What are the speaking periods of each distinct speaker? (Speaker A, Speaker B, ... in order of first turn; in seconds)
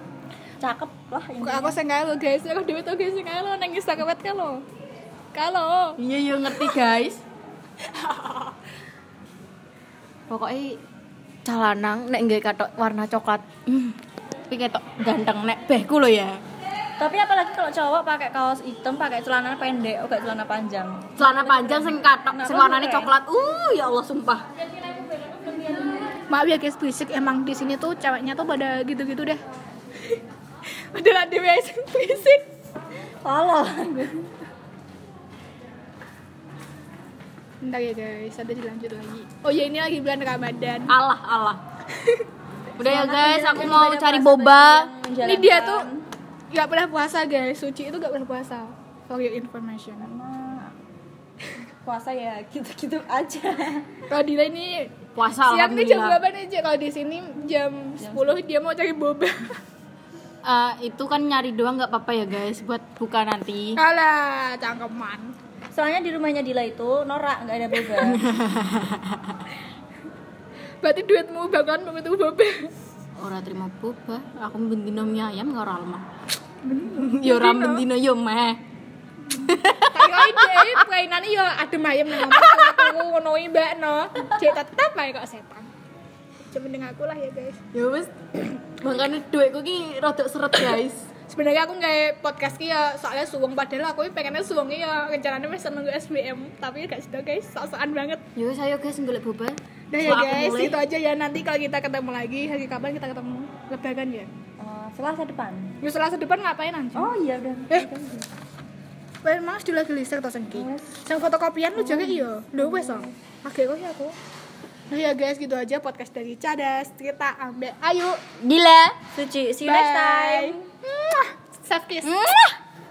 Speaker A: 0.6-1.8, 17.0-23.2, 33.2-34.3, 42.8-46.0, 50.0-50.7, 51.8-53.9, 58.0-58.4, 65.7-68.2, 104.6-105.7, 106.9-108.3, 110.5-111.0, 111.8-113.1, 119.2-120.6
Speaker B: 1.4-4.6, 5.3-6.0, 6.5-6.7, 8.0-8.4, 26.3-29.4, 30.9-32.5, 37.6-41.0, 42.0-42.3, 45.2-45.9, 46.5-50.1, 54.1-59.5, 63.8-65.3, 70.8-72.7, 76.7-77.8, 79.8-85.7, 86.5-87.6, 91.3-98.2, 99.9-104.3, 105.8-107.1, 109.2-114.1, 114.9-118.2, 119.6-122.2
Speaker C: 6.0-7.2, 10.3-10.8, 11.4-13.9, 14.5-16.4, 21.2-24.4, 40.9-41.6, 42.8-44.9, 55.1-56.2, 60.4-63.8, 68.0-69.3, 73.2-76.0, 76.9-78.6, 79.3-80.8, 82.2-82.9, 87.7-91.0, 98.3-100.8, 118.4-118.9, 122.0-122.6